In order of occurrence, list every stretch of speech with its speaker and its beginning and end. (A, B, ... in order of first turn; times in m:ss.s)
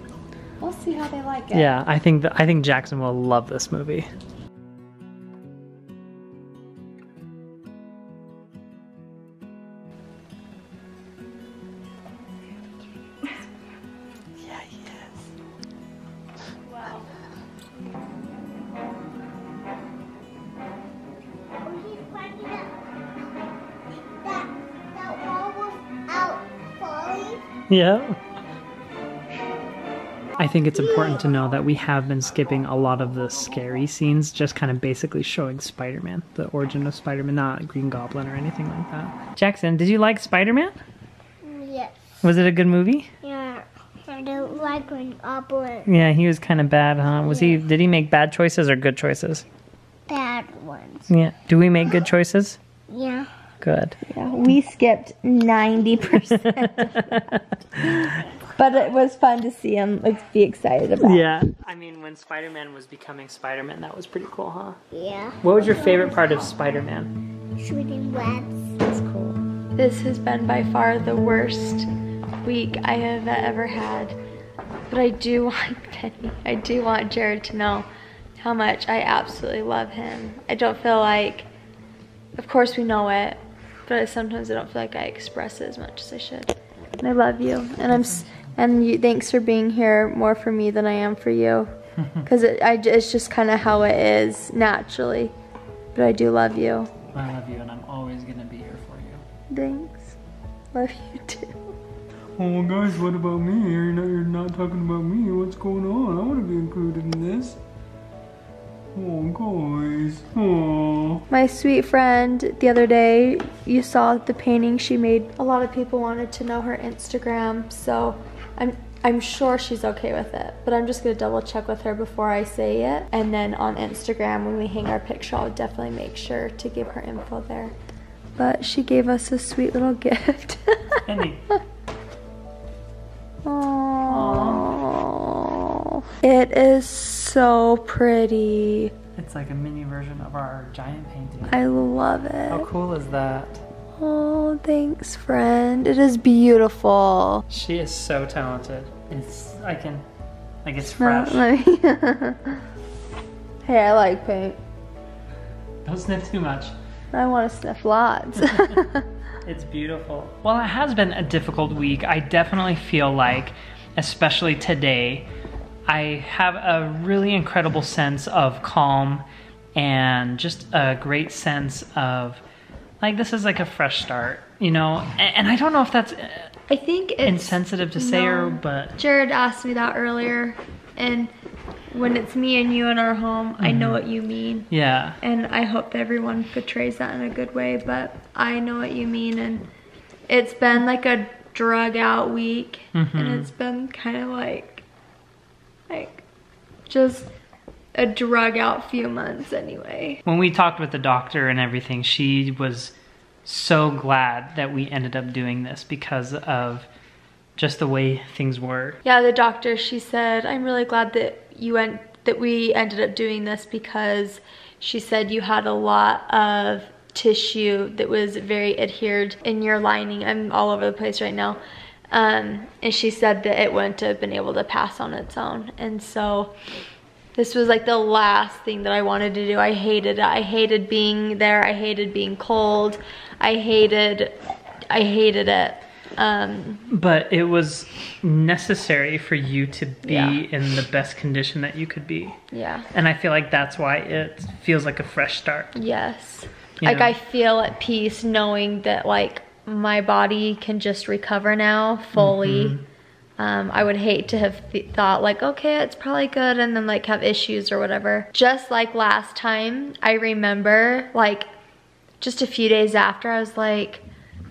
0:00.6-0:01.7 A
0:01.5-0:04.1 B
0:14.4-0:15.3 B
0:16.7-0:17.1 A
0:21.6-0:23.3 C
0:23.9-0:27.4 C
0:27.7-0:28.2 B
0:30.4-0:40.8 B
0:41.4-0:42.0 C
0:42.2-0:43.1 B
0:43.2-0:45.9 C
0:45.9-0:49.4 B
0:47.3-0:47.6 C
0:50.1-0:51.1 C
0:51.1-0:52.6 B
0:52.9-0:53.3 C
0:53.6-0:54.0 B
0:54.1-0:57.3 A
0:56.1-0:58.2 B
0:58.6-1:01.2 A
1:01.0-1:04.8 B
1:04.9-1:05.4 C
1:05.4-1:07.1 B
1:07.6-1:08.8 C
1:08.9-1:11.9 A
1:12.4-1:14.2 A
1:14.9-1:17.9 A
1:18.4-1:21.5 A
1:22.4-1:31.7 A
1:27.9-1:28.3 B
1:32.2-1:35.3 A
1:35.9-1:36.9 A
1:37.1-1:39.2 B
1:39.5-1:40.2 A
1:40.7-1:41.6 A
1:42.4-1:47.6 B
1:48.9-1:51.2 B
1:51.3-2:07.7 A
2:08.4-2:11.0 A
2:11.0-2:11.4 B
2:13.4-2:18.9 A
2:14.1-2:14.7 B
2:19.2-2:21.6 B
2:21.5-2:22.7 A
2:22.5-2:23.6 B
2:24.0-2:27.4 A
2:27.5-2:30.0 B
2:30.6-2:31.4 B
2:30.8-2:32.6 A
2:33.6-2:34.6 A
2:35.8-2:36.7 B
2:37.1-2:39.0 A
2:39.4-2:45.3 B
2:45.9-2:49.2 B
2:49.8-2:52.4 B
2:53.0-2:56.5 B
2:56.7-3:01.3 A
2:57.2-2:58.9 B
3:01.9-3:04.7 A
3:03.6-3:04.0 B
3:04.7-3:05.2 B
3:05.2-3:09.6 A
3:10.3-3:14.8 A
3:12.9-3:13.5 B
3:15.9-3:16.2 A
3:16.9-3:17.3 A
3:18.0-3:20.2 A
3:20.3-3:22.9 B
3:23.4-3:26.9 B
3:27.6-3:29.0 B
3:29.0-3:41.6 A
3:42.1-3:46.5 A
3:47.4-3:54.4 A
3:54.9-3:56.9 A
3:56.9-4:02.4 B
4:00.0-4:00.4 A
4:02.5-4:02.9 A
4:02.9-4:05.7 B
4:05.8-4:12.8 A
4:06.8-4:07.1 B
4:12.2-4:12.8 B
4:13.4-4:21.5 A
4:22.2-4:24.0 A